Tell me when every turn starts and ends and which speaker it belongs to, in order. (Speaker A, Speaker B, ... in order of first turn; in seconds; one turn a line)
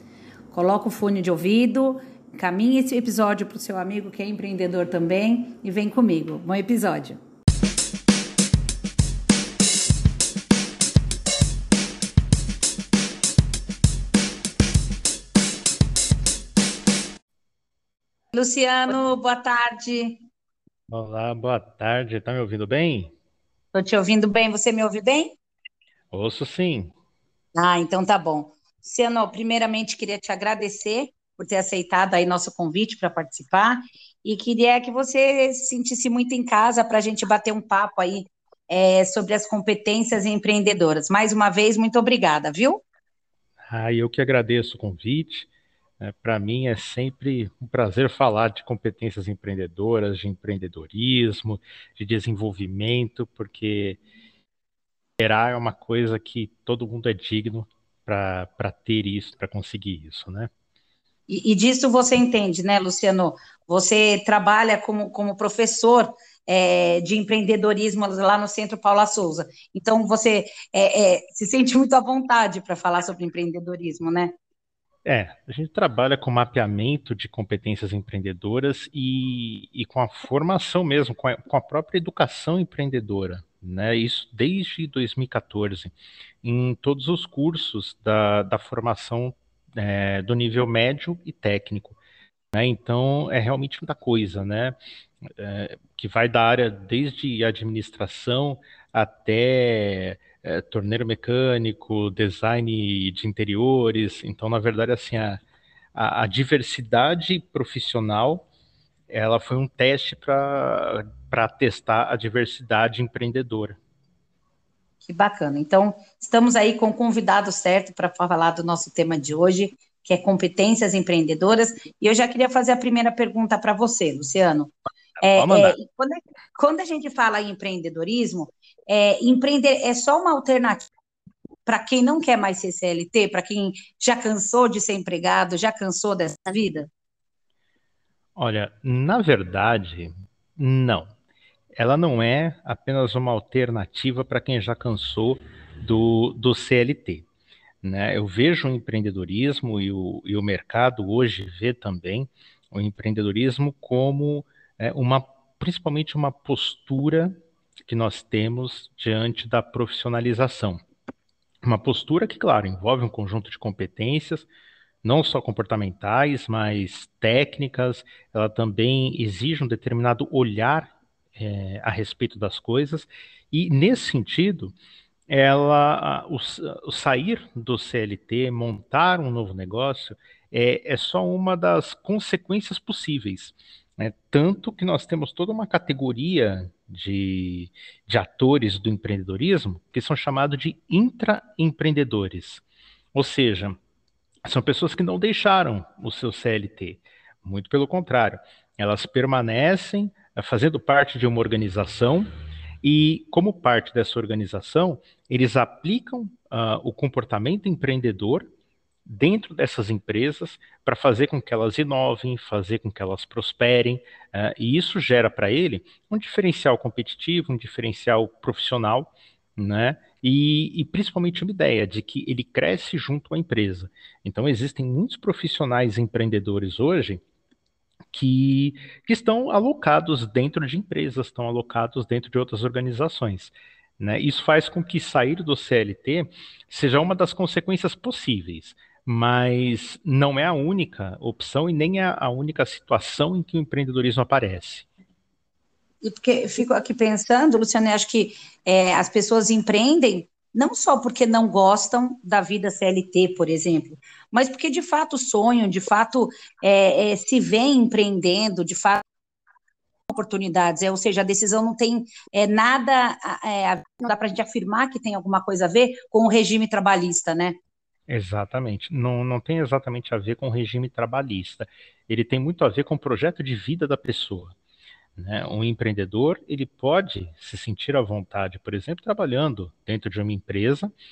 Speaker A: 0.5-7.2
Speaker A: 18.3-20.2
Speaker B: 20.9-23.1
Speaker A: 23.7-25.4
Speaker B: 26.1-26.9
Speaker A: 27.6-42.8
Speaker B: 43.7-45.5
Speaker B: 46.0-54.0
Speaker B: 55.2-60.5
Speaker A: 61.3-74.4
Speaker B: 75.0-92.0
Speaker B: 92.5-105.4
Speaker B: 106.0-108.5
Speaker B: 109.1-113.8
Speaker A: 115.0-130.9
Speaker B: 125.3-125.8
Speaker A: 131.7-136.9
Speaker B: 138.4-141.1
Speaker B: 141.7-147.2
Speaker B: 147.8-157.3
Speaker B: 157.8-160.8
Speaker B: 161.6-164.5
Speaker B: 165.0-174.8
Speaker B: 175.3-192.6
Speaker B: 193.1-193.8
Speaker B: 194.4-202.3
Speaker B: 202.8-208.5
Speaker B: 209.1-227.2
Speaker B: 228.1-244.9
Speaker A: 246.0-259.0
Speaker A: 260.1-267.6
Speaker B: 268.1-274.6
Speaker B: 275.2-280.9